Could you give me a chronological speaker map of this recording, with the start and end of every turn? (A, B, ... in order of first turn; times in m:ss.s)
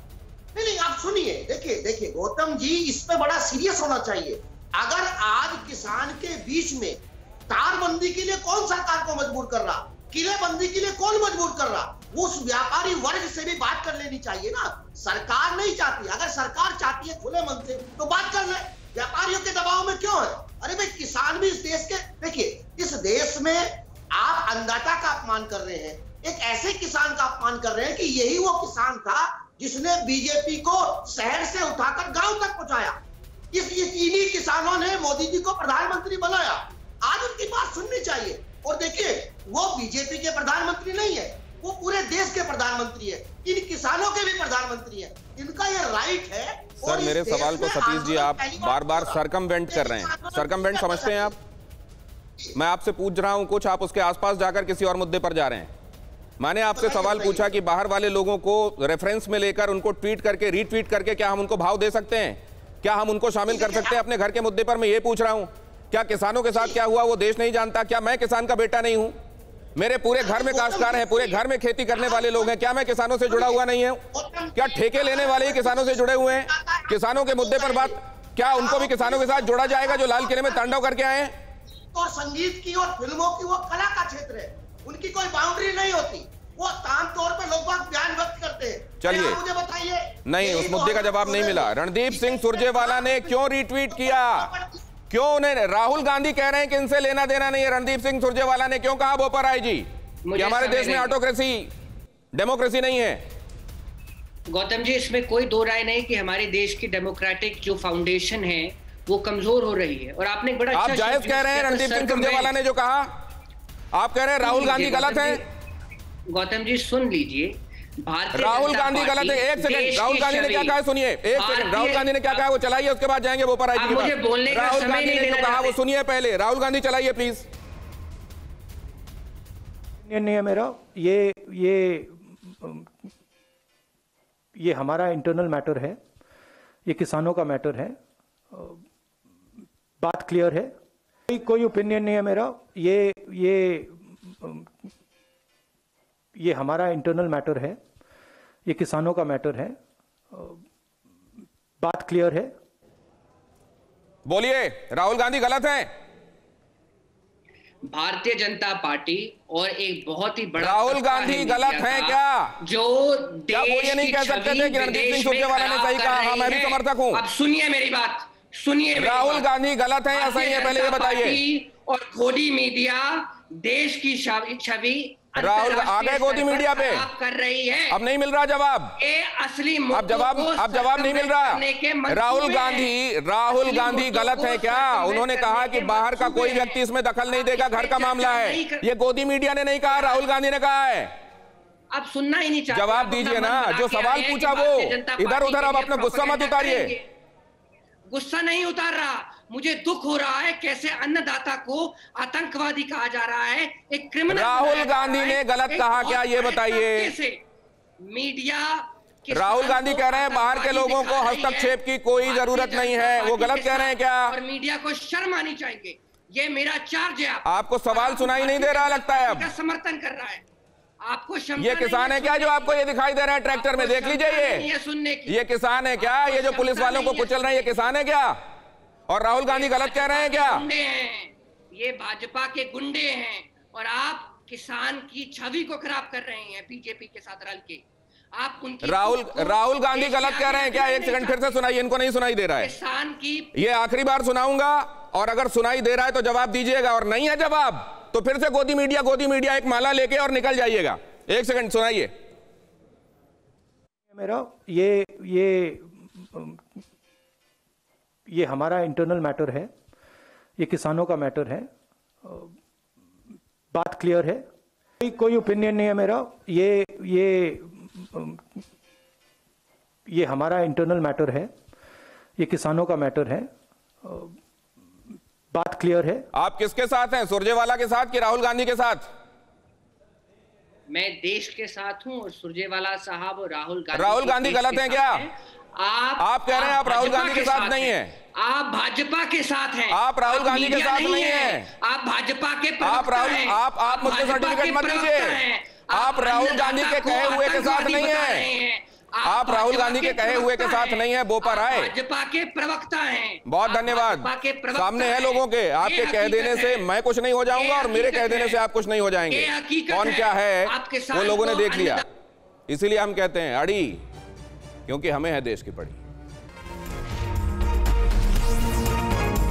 0:00.5-0:33.0 A
0:33.5-0:51.3 A
0:46.8-0:51.3 B
0:52.5-0:55.7 B
0:56.4-1:09.1 B
0:56.7-0:57.5 A
1:03.5-1:04.0 A
1:09.8-1:14.0 B
1:10.2-1:11.4 A
1:11.9-1:12.6 A
1:13.3-1:13.6 A
1:14.1-1:20.7 A
1:14.6-1:21.4 B
1:21.9-1:33.3 A
1:29.0-1:29.4 B
1:30.2-1:34.5 B
1:33.9-1:34.8 A
1:35.1-1:41.7 B
1:40.2-1:41.1 C
1:42.3-1:43.2 B
1:44.5-1:52.5 C
1:50.7-1:53.1 B
1:53.9-1:55.4 B
1:54.4-1:55.4 C
1:56.3-2:00.7 C
1:58.3-2:07.4 B
2:01.4-2:02.4 C
2:03.7-2:05.8 C
2:10.0-2:12.9 D
2:14.6-2:16.0 D
2:16.8-2:18.0 D
2:18.5-2:18.8 D
2:20.0-2:20.7 D
2:21.3-2:24.7 D
2:26.4-2:27.8 D
2:28.6-2:29.8 D
2:30.3-2:30.6 D
2:31.8-2:32.5 D
2:34.2-2:35.9 B
2:37.8-2:49.4 C
2:40.6-2:42.6 B
2:43.5-2:47.2 B
2:49.0-2:51.4 B
2:50.1-2:58.0 C
2:55.4-2:57.0 B
2:57.9-2:59.0 B
2:59.0-3:02.9 C
2:59.9-3:11.2 B
3:03.5-3:08.8 C
3:09.9-3:10.2 C
3:11.9-3:17.1 C
3:12.7-3:16.9 B
3:18.1-3:27.4 C
3:24.3-3:27.1 B
3:28.0-3:40.4 C
3:29.3-3:34.3 B
3:37.4-3:39.5 B
3:41.0-3:42.7 C
3:41.6-3:44.7 B
3:43.5-3:45.4 C
3:45.3-3:48.4 B
3:46.0-3:47.9 C
3:49.1-3:50.6 B
3:49.5-3:57.8 C
3:58.3-4:01.5 C
3:58.8-4:02.7 B
4:02.6-4:03.5 C
4:03.5-4:12.1 B
4:14.1-4:16.6 D
4:18.3-4:19.7 D
4:20.6-4:21.7 D
4:22.2-4:22.6 D
4:23.7-4:24.4 D
4:25.0-4:28.6 D
4:30.1-4:31.5 D
4:32.4-4:33.5 D
4:34.0-4:34.4 D
4:35.5-4:36.2 D
4:36.3-4:39.1 B
4:40.9-5:06.9 C
4:43.9-4:45.2 B
4:46.2-4:48.1 B
4:49.9-4:51.7 B
4:52.8-4:55.4 B
4:55.9-4:58.5 B
4:59.2-5:01.9 B
5:03.5-5:12.0 B
5:07.4-5:08.6 C
5:09.3-5:12.0 C
5:12.7-5:14.0 B
5:14.9-5:16.0 B